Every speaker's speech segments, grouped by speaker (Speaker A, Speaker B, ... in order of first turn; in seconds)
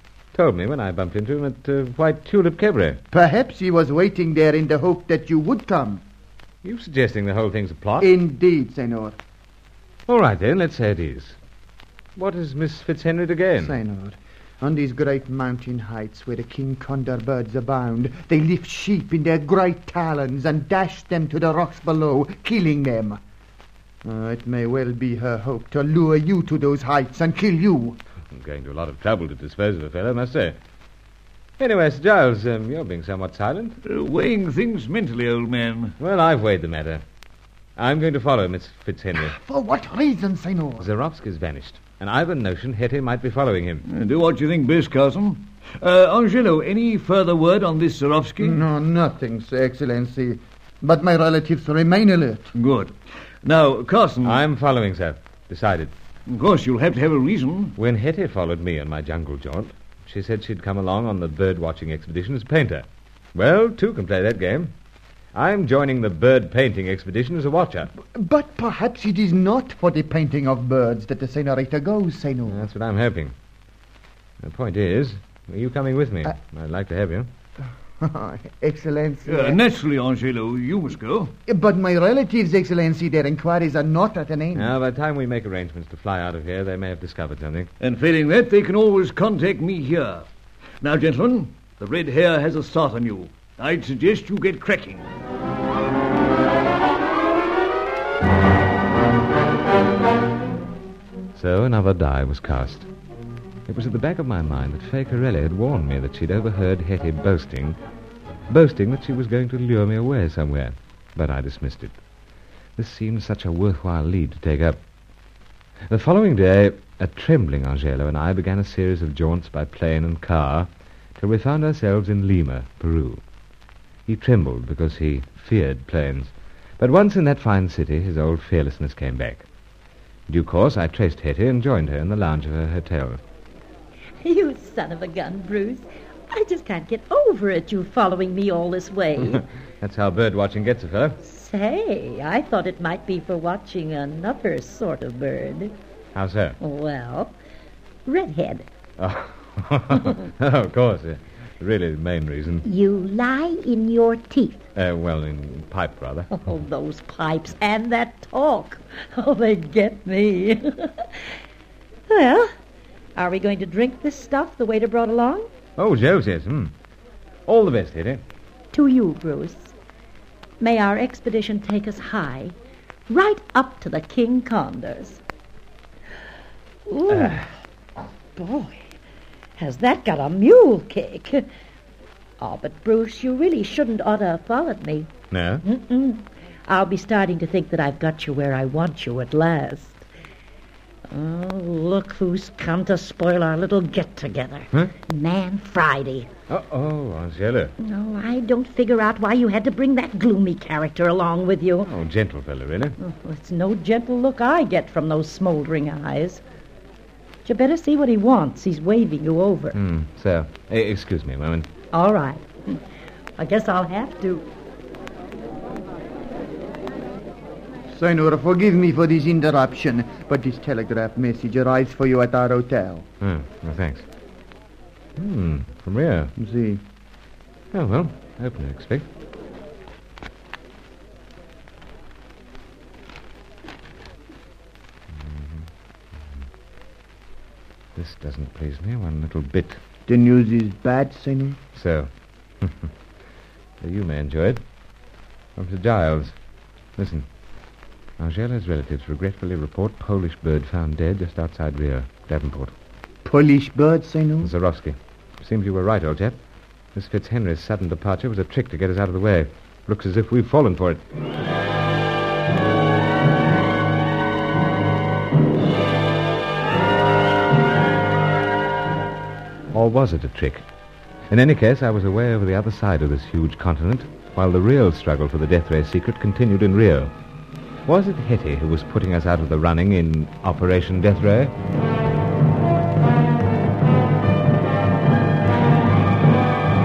Speaker A: 0.3-3.0, 6.6-8.1, 10.1-11.3, 12.2-13.8, 28.3-30.6, 31.6-33.8, 36.0-37.0, 37.8-39.4, 40.8-43.8, 54.2-55.9, 57.8-64.7, 65.3-67.9, 72.5-73.3, 74.4-77.3, 84.5-87.7, 101.3-102.9, 103.7-107.8, 108.5-112.0, 112.8-114.8, 115.9-123.2, 124.0-129.4, 130.3-133.2, 139.2-141.2, 146.1-146.6, 149.0-152.6, 154.8-156.5, 165.8-166.7, 167.5-168.2, 185.3-185.6, 196.5-197.7, 201.8-203.0, 209.7-211.7, 223.2-224.1, 225.2-226.3, 227.7-229.1, 235.1-235.7, 237.9-239.8, 241.7-242.1, 242.6-242.9, 243.8-244.6, 245.6-246.3, 247.0-247.2, 248.2-252.7, 254.4-256.4, 256.9-261.0, 269.7-270.6, 271.3-277.1, 277.9-281.5
Speaker B: 3.1-6.0, 8.0-9.2, 13.6-23.2, 24.0-28.0, 39.2-40.9, 48.4-52.5, 68.0-72.6, 78.0-79.6, 81.5-84.7, 217.9-223.1, 226.4-226.8, 240.1-241.6, 253.2-254.5
Speaker C: 33.8-35.9, 43.9-48.6, 52.5-54.4, 56.3-57.8, 79.2-81.3, 87.8-90.2, 90.8-95.1
Speaker D: 134.2-139.4, 141.2-145.7, 146.6-147.3, 148.0-148.7, 152.6-154.6, 156.3-161.2, 162.1-162.5, 163.2-165.5, 168.7-169.7, 170.6-172.6, 173.1-175.2, 176.9-177.5, 178.3-178.8, 179.6-181.4, 182.4-185.1, 185.6-190.0, 191.1-196.3, 197.8-201.9, 203.0-206.4, 207.4-209.8, 211.9-212.8, 213.4-214.4